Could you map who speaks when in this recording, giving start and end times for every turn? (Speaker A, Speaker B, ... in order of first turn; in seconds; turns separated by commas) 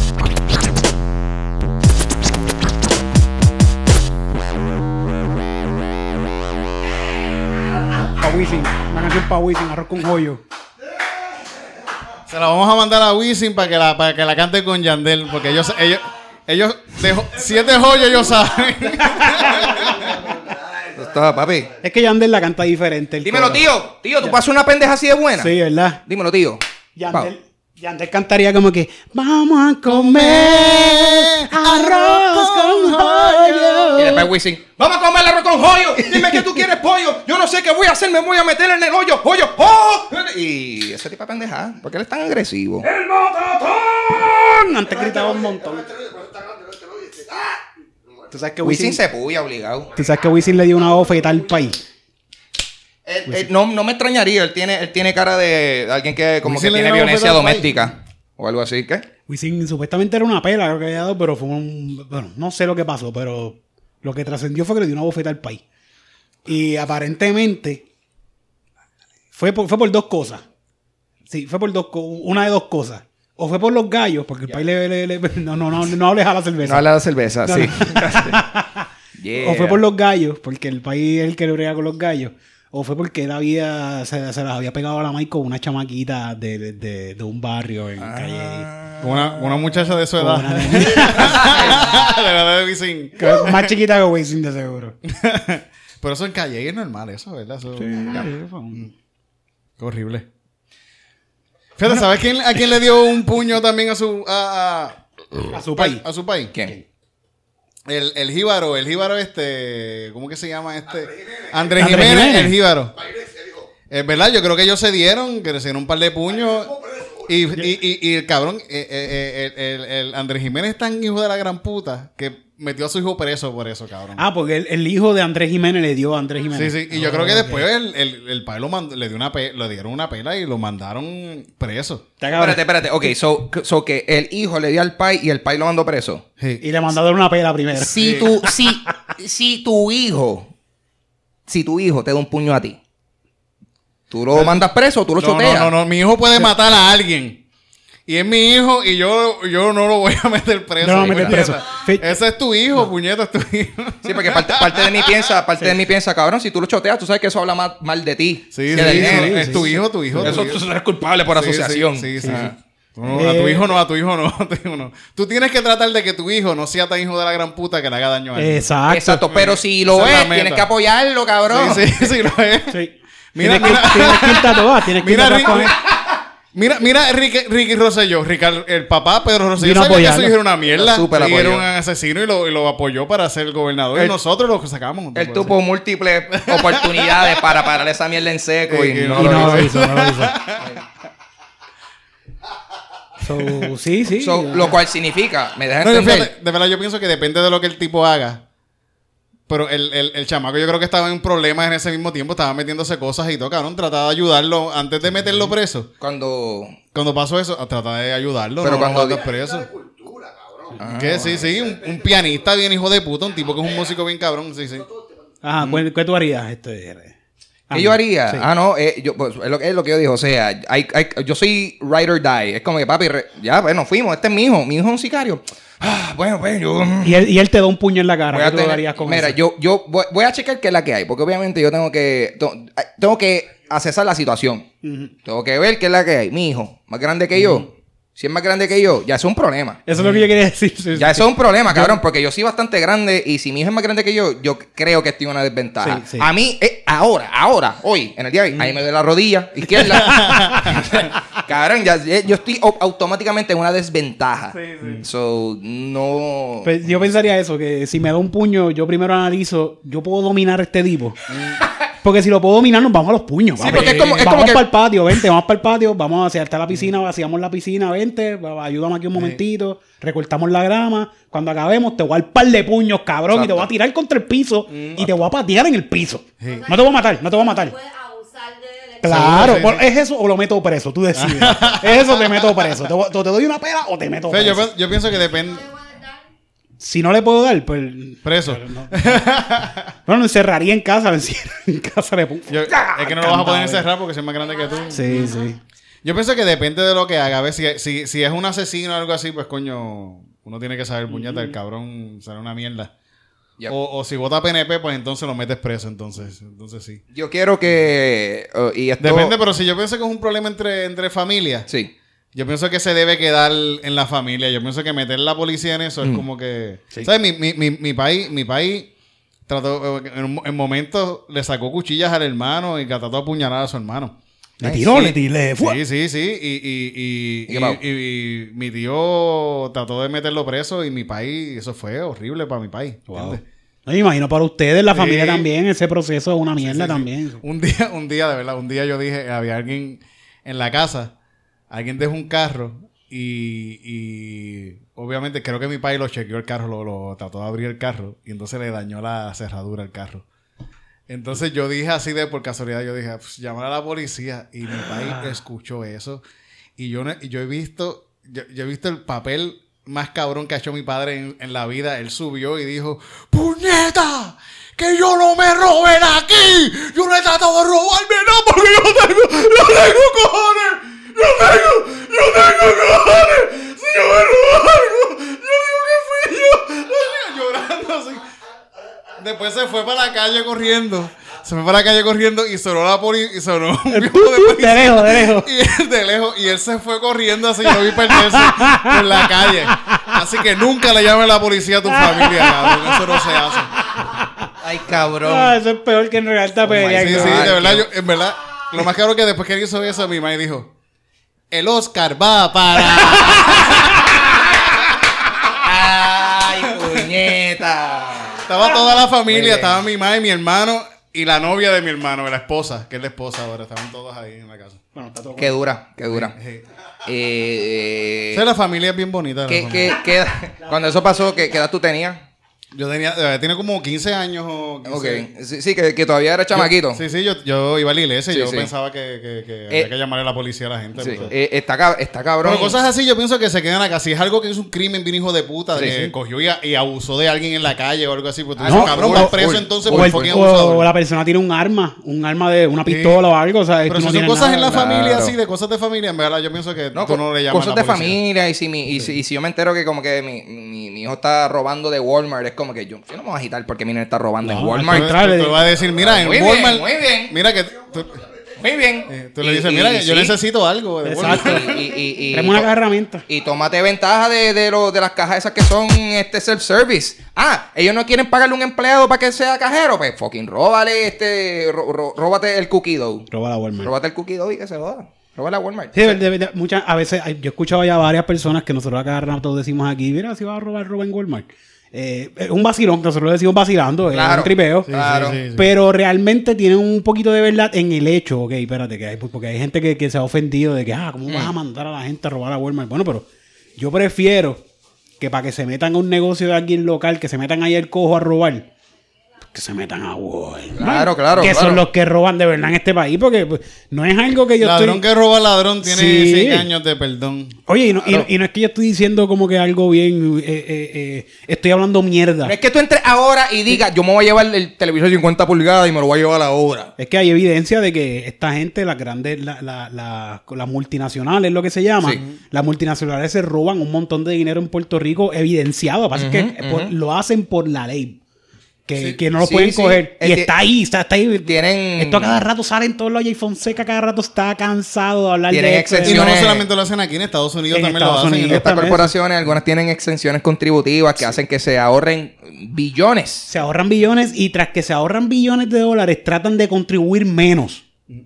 Speaker A: 8.1-10.4, Speaker B: 12.3-20.1, Speaker C: 17.6-18.8, Speaker A: 19.0-20.3, Speaker C: 19.4-21.8, Speaker D: 20.9-21.7, Speaker A: 21.8-23.6, Speaker D: 23.2-25.5, Speaker A: 25.4-26.0, Speaker D: 26.1-27.3, Speaker A: 26.9-34.2, Speaker B: 29.9-34.2, Speaker D: 34.0-42.9, Speaker A: 36.0-36.4, Speaker A: 42.8-45.9, Speaker C: 44.9-48.3, Speaker A: 48.3-49.0, Speaker D: 48.6-49.9, Speaker C: 49.9-51.6, Speaker A: 49.9-51.8, Speaker D: 53.0-59.0, Speaker B: 56.4-57.8, Speaker A: 59.3-65.6, Speaker A: 66.5-67.8, Speaker A: 69.3-70.4, Speaker A: 71.3-76.9, Speaker D: 76.6-78.4, Speaker A: 77.4-88.7, Speaker D: 79.2-79.8, Speaker D: 88.0-89.3, Speaker B: 89.0-93.7, Speaker A: 90.1-91.5, Speaker D: 91.0-92.0, Speaker A: 93.2-94.9, Speaker B: 95.0-98.2, Speaker A: 97.8-98.9, Speaker B: 99.8-100.3, Speaker B: 101.8-106.5, Speaker A: 105.5-106.0, Speaker B: 107.9-112.9, Speaker C: 111.0-112.0, Speaker A: 111.8-112.5, Speaker C: 112.9-113.7, Speaker B: 113.9-116.7, Speaker C: 116.3-117.4, Speaker B: 117.2-124.2, Speaker A: 124.2-127.7, Speaker B: 126.5-132.0, Speaker A: 132.2-132.6, Speaker D: 132.3-136.2, Speaker A: 136.6-138.5, Speaker D: 137.7-140.5, Speaker B: 138.0-138.3, Speaker D: 141.5-142.8, Speaker D: 144.1-145.7, Speaker B: 144.3-144.6, Speaker B: 145.2-147.4, Speaker B: 148.1-155.2, Speaker A: 150.8-152.1, Speaker D: 151.0-151.5, Speaker D: 154.0-162.5, Speaker B: 158.5-160.6, Speaker A: 158.7-160.4, Speaker B: 161.3-168.7, Speaker A: 163.1-163.7, Speaker A: 168.4-169.3, Speaker D: 168.9-172.1, Speaker B: 169.3-170.7, Speaker B: 171.5-172.8, Speaker A: 172.7-175.8, Speaker B: 173.3-175.8, Speaker B: 176.5-185.5, Speaker A: 179.6-180.4, Speaker D: 180.7-181.7, Speaker D: 185.1-189.7, Speaker B: 186.3-187.5, Speaker B: 188.7-190.7, Speaker A: 189.2-190.4, Speaker A: 193.2-194.8, Speaker D: 194.2-196.3, Speaker B: 195.8-198.4, Speaker B: 199.5-205.9, Speaker D: 206.0-206.8, Speaker B: 206.9-209.7, Speaker D: 208.6-209.2, Speaker C: 208.9-212.5, Speaker D: 210.8-211.4, Speaker B: 210.9-214.9, Speaker C: 213.4-213.9, Speaker C: 214.7-215.2, Speaker A: 215.4-217.1, Speaker A: 217.7-218.4, Speaker D: 217.7-227.2, Speaker A: 227.0-229.4, Speaker D: 228.3-234.7, Speaker A: 234.8-235.1, Speaker D: 235.2-240.1, Speaker B: 237.4-237.7, Speaker A: 239.9-242.0, Speaker D: 240.9-256.7, Speaker A: 245.8-246.3, Speaker A: 249.8-250.8, Speaker B: 250.1-250.8, Speaker B: 254.5-255.0, Speaker A: 256.6-261.2, Speaker B: 261.3-261.6, Speaker A: 262.0-277.7, Speaker D: 263.6-264.7, Speaker B: 269.1-269.4, Speaker D: 273.3-273.7, Speaker B: 274.7-275.1, Speaker B: 276.4-276.7, Speaker E: 276.4-279.7, Speaker A: 279.0-284.7, Speaker B: 279.1-279.9, Speaker B: 281.1-282.6, Speaker B: 284.3-285.6, Speaker E: 285.2-286.2, Speaker A: 286.8-289.2, Speaker B: 288.2-289.9, Speaker A: 290.1-293.9, Speaker B: 292.5-295.3, Speaker E: 294.4-295.5, Speaker A: 294.9-295.6, Speaker B: 296.0-302.9, Speaker A: 301.1-301.5, Speaker B: 303.7-307.0, Speaker D: 307.1-309.4, Speaker B: 309.0-311.7, Speaker D: 311.7-311.9, Speaker B: 312.3-318.9, Speaker B: 319.5-324.2, Speaker A: 324.6-325.8, Speaker D: 324.6-325.1, Speaker B: 325.6-333.4, Speaker D: 327.5-327.8, Speaker A: 333.1-337.4, Speaker B: 334.9-335.5, Speaker B: 336.6-341.1, Speaker B: 341.7-350.2, Speaker B: 351.1-356.2, Speaker B: 356.8-378.2, Speaker B: 379.2-393.7, Speaker A: 383.9-385.5, Speaker A: 387.9-390.2, Speaker A: 391.9-393.2, Speaker A: 393.8-394.5, Speaker D: 394.6-395.6, Speaker A: 395.2-397.6, Speaker D: 396.6-397.9, Speaker B: 396.8-400.7, Speaker B: 401.5-404.1, Speaker D: 403.2-404.8, Speaker D: 405.4-408.5, Speaker B: 406.7-407.2, Speaker B: 408.4-414.8, Speaker D: 409.3-409.8, Speaker A: 414.9-415.6, Speaker D: 415.4-416.4, Speaker B: 416.1-416.6, Speaker D: 417.0-418.4, Speaker B: 418.3-420.0, Speaker D: 419.5-422.2, Speaker B: 422.7-425.3, Speaker D: 424.8-427.0, Speaker B: 426.5-431.3, Speaker D: 428.3-428.7, Speaker D: 431.0-432.8, Speaker B: 432.4-440.9, Speaker D: 435.7-436.1, Speaker D: 438.6-440.3, Speaker A: 438.6-444.8, Speaker B: 442.8-443.2, Speaker B: 443.9-448.2, Speaker D: 444.7-445.3, Speaker D: 446.9-455.1, Speaker A: 454.4-455.6, Speaker B: 454.8-458.1, Speaker D: 456.0-457.3, Speaker C: 457.9-458.6, Speaker D: 458.6-460.4, Speaker B: 459.1-461.9, Speaker A: 461.0-461.8, Speaker D: 461.2-462.7, Speaker A: 462.3-463.2, Speaker D: 463.3-473.3, Speaker A: 473.3-473.9, Speaker D: 473.8-476.2, Speaker A: 475.9-484.9, Speaker D: 484.1-485.4, Speaker B: 484.9-485.7, Speaker A: 485.6-494.6, Speaker A: 495.2-498.6, Speaker A: 499.5-505.1, Speaker D: 500.8-501.8, Speaker B: 504.6-507.6, Speaker A: 505.8-506.7, Speaker A: 507.7-512.5, Speaker D: 508.0-508.3, Speaker D: 512.5-516.9, Speaker A: 517.0-528.2, Speaker D: 526.1-526.9, Speaker A: 528.9-536.3, Speaker D: 529.4-530.5, Speaker D: 531.5-532.4, Speaker D: 535.5-536.6, Speaker B: 536.0-539.0, Speaker A: 537.7-539.1, Speaker D: 538.5-543.5, Speaker A: 543.5-547.8